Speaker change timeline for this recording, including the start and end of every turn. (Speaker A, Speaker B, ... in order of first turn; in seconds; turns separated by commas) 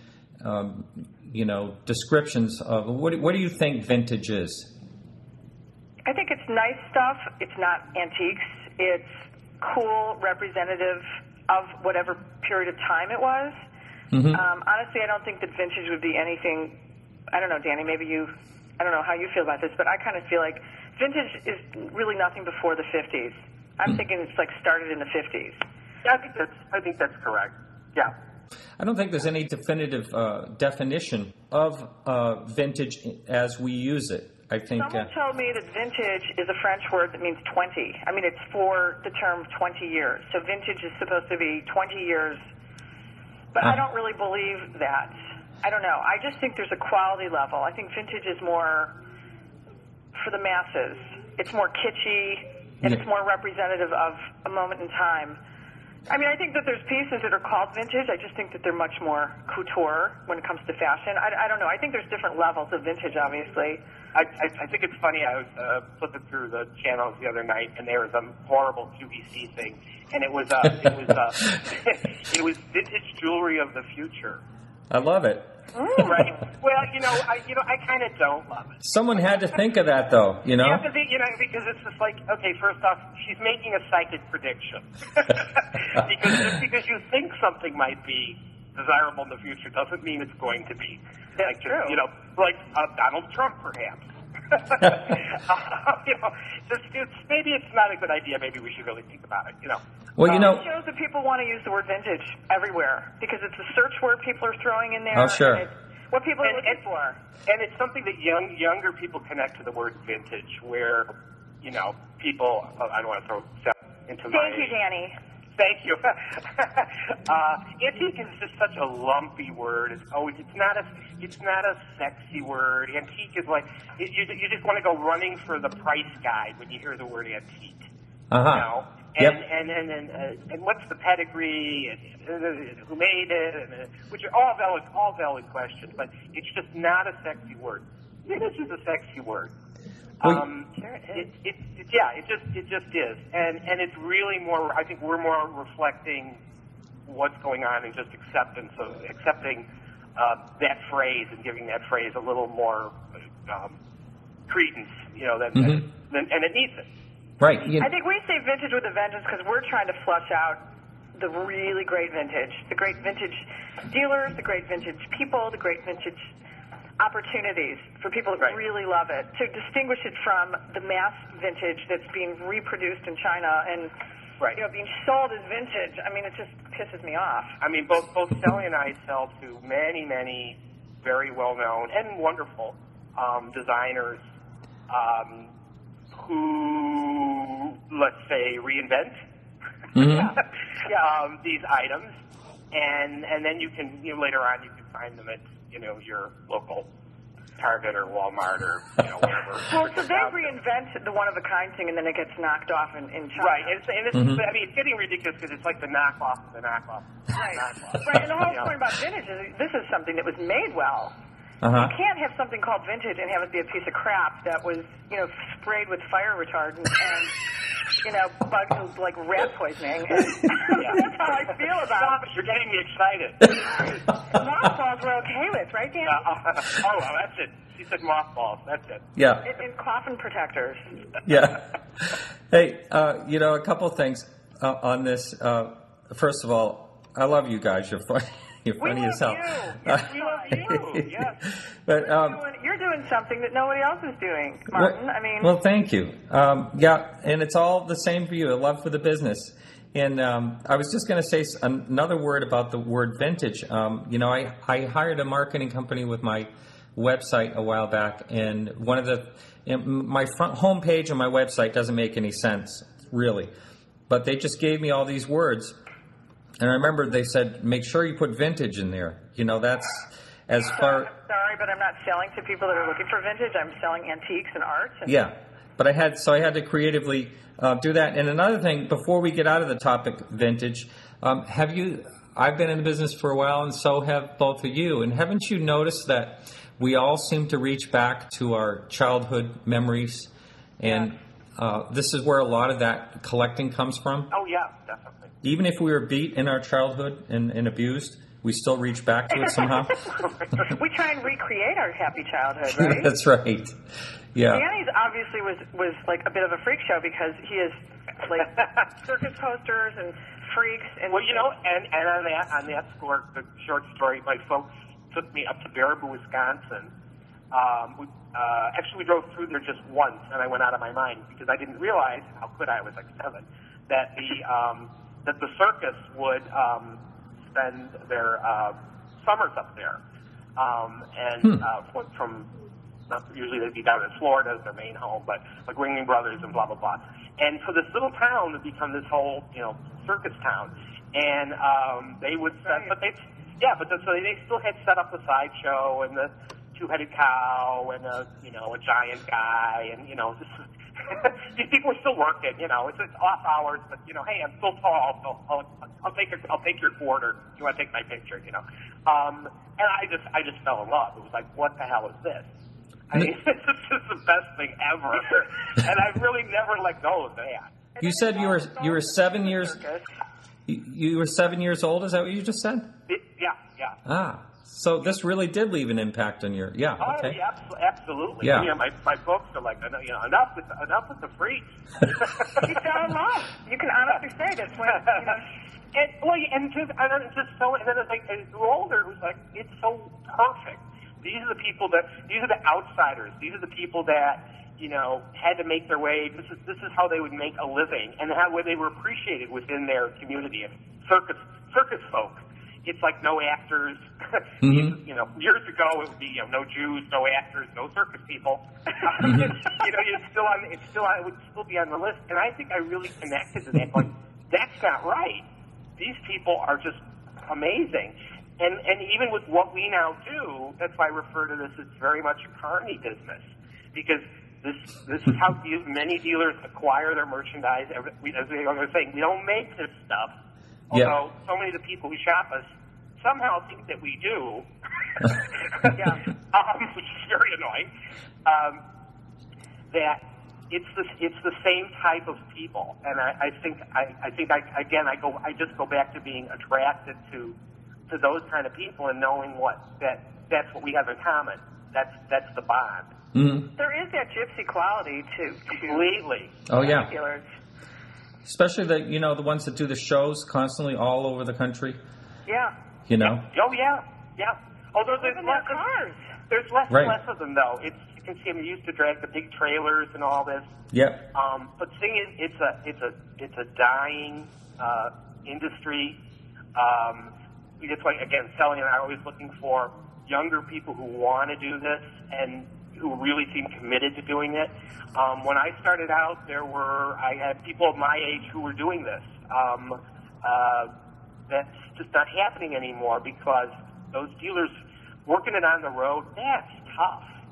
Speaker A: 0.4-4.7, Speaker B: 6.0-13.6, Speaker A: 14.1-14.4, Speaker B: 14.3-16.8, Speaker B: 17.3-25.6, Speaker C: 26.0-28.1, Speaker A: 28.8-35.1, Speaker B: 34.8-42.4, Speaker B: 43.5-48.9, Speaker B: 50.1-55.4, Speaker B: 56.1-63.8, Speaker C: 64.1-74.4, Speaker A: 74.9-75.5, Speaker B: 75.7-76.3, Speaker C: 76.0-78.8, Speaker A: 78.8-80.9, Speaker C: 80.6-99.8, Speaker B: 91.4-92.0, Speaker A: 100.2-100.7, Speaker B: 100.2-107.2, Speaker A: 105.1-105.7, Speaker C: 106.4-106.8, Speaker C: 107.5-111.1, Speaker C: 111.6-114.8, Speaker B: 114.3-115.2, Speaker C: 115.6-127.9, Speaker A: 128.3-129.4, Speaker C: 128.5-139.5, Speaker C: 140.2-146.4, Speaker B: 140.8-141.3, Speaker C: 147.1-153.8, Speaker C: 154.5-156.9, Speaker A: 155.6-155.8, Speaker A: 157.4-157.9, Speaker B: 157.8-160.6, Speaker B: 161.2-166.3, Speaker B: 167.0-173.9, Speaker B: 174.5-177.6, Speaker C: 177.6-184.2, Speaker C: 184.9-185.5, Speaker C: 186.1-189.2, Speaker A: 189.9-190.3, Speaker C: 190.0-192.1, Speaker C: 192.7-196.9, Speaker C: 197.6-200.5, Speaker B: 199.7-203.8, Speaker C: 203.4-208.7, Speaker A: 204.1-204.4, Speaker B: 207.3-211.2, Speaker A: 211.6-211.9, Speaker B: 211.7-217.4, Speaker B: 218.0-222.3, Speaker C: 220.7-221.1, Speaker C: 221.8-223.7, Speaker B: 223.9-226.2, Speaker C: 226.1-229.1, Speaker A: 229.2-229.5, Speaker B: 229.4-230.9, Speaker A: 231.2-242.4, Speaker B: 238.8-240.6, Speaker C: 239.9-241.4, Speaker B: 242.0-245.5, Speaker A: 244.7-263.5, Speaker A: 264.1-265.8, Speaker A: 266.6-271.1, Speaker B: 270.6-275.2, Speaker A: 275.1-294.3, Speaker B: 290.8-291.1, Speaker C: 294.3-295.3, Speaker A: 295.4-300.0, Speaker B: 300.7-303.1, Speaker A: 302.7-303.8, Speaker A: 304.3-304.6, Speaker B: 304.5-311.5, Speaker C: 311.1-316.9, Speaker C: 317.5-330.0, Speaker C: 330.6-332.5, Speaker C: 333.1-362.5, Speaker B: 342.7-342.9, Speaker C: 363.1-367.7, Speaker B: 368.0-370.1, Speaker A: 368.0-369.8, Speaker A: 370.7-372.9, Speaker C: 373.1-374.0, Speaker A: 374.1-377.4, Speaker C: 377.0-382.8, Speaker A: 378.4-378.7, Speaker B: 382.6-385.6, Speaker C: 385.0-385.3, Speaker C: 385.9-415.4, Speaker A: 404.6-404.9, Speaker A: 409.2-409.5, Speaker C: 416.0-430.3, Speaker C: 430.9-432.7, Speaker C: 433.2-434.7, Speaker C: 435.2-436.0, Speaker B: 436.0-436.2, Speaker C: 436.5-437.9, Speaker C: 438.4-438.8, Speaker C: 439.9-447.6, Speaker C: 448.1-453.1, Speaker A: 453.3-453.7, Speaker B: 453.8-456.1, Speaker C: 455.7-456.5, Speaker A: 456.7-457.1, Speaker B: 456.7-457.5, Speaker A: 458.4-462.0, Speaker B: 462.5-462.7, Speaker A: 463.1-463.4, Speaker C: 463.2-465.8, Speaker B: 465.2-466.3, Speaker C: 466.5-470.8, Speaker A: 466.9-467.1, Speaker A: 470.9-471.2, Speaker C: 471.3-476.2, Speaker C: 476.8-490.9, Speaker C: 491.5-494.7, Speaker C: 495.3-497.3